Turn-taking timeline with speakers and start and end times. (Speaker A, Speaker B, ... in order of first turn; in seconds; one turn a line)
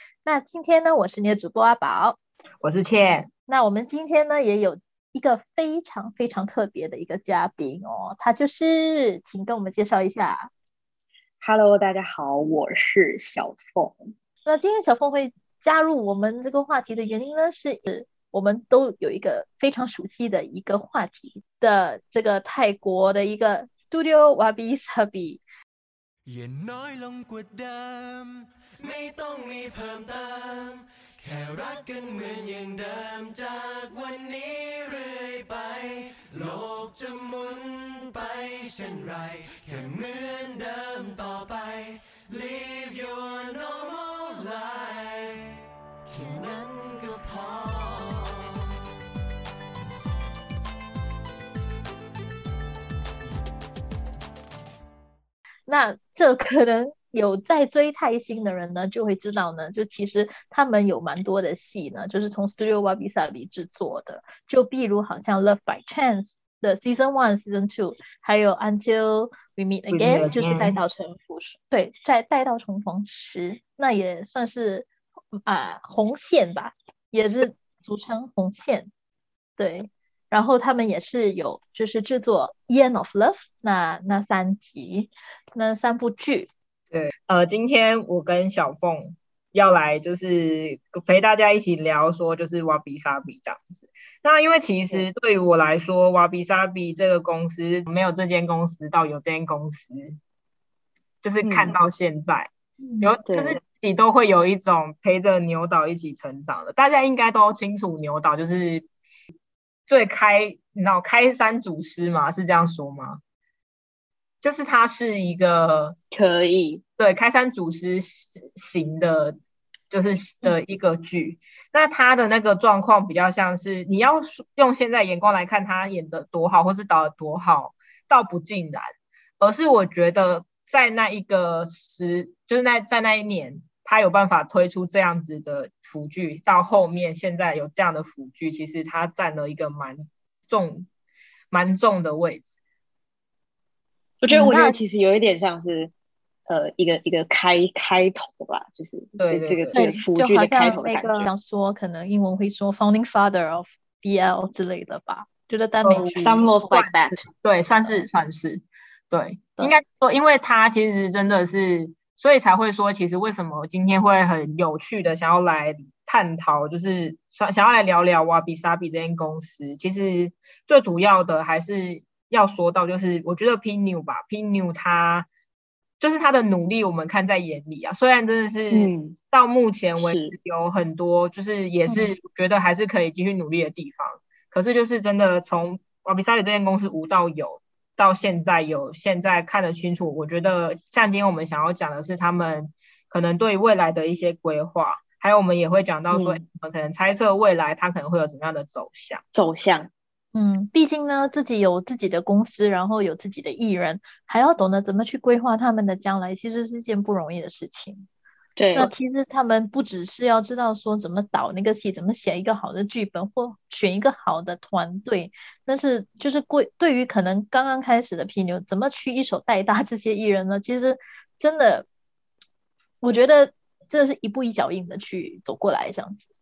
Speaker A: 0.2-2.2
Speaker B: 2.6-3.3
Speaker A: 3.5-10.5
Speaker C: 11.4-14.1
Speaker A: 14.5-25.4
Speaker D: 26.3-48.8
Speaker A: 55.7-78.9
Speaker B: 69.9-70.8
Speaker A: 79.6-86.5
Speaker B: 86.9-100.2
Speaker B: 101.2-102.5
Speaker C: 101.4-101.8
Speaker A: 102.8-103.2
Speaker B: 103.0-108.9
Speaker C: 103.3-103.6
Speaker B: 109.9-113.2
Speaker B: 114.4-116.0
Speaker C: 116.1-116.8
Speaker B: 117.0-119.4
Speaker B: 119.9-140.9
Speaker B: 141.5-142.5
Speaker C: 144.2-145.9
Speaker A: 144.3-144.8
Speaker C: 146.5-151.3
Speaker B: 149.2-149.8
Speaker A: 149.7-156.7
Speaker B: 155.8-175.3
Speaker C: 156.0-157.2
Speaker B: 176.0-199.2
Speaker C: 178.7-179.2
Speaker C: 180.0-180.3
Speaker A: 181.9-182.1
Speaker C: 196.1-196.4
Speaker C: 199.3-199.9
Speaker A: 200.3-208.1
Speaker C: 208.6-208.9
Speaker A: 208.8-221.9
Speaker A: 223.0-226.3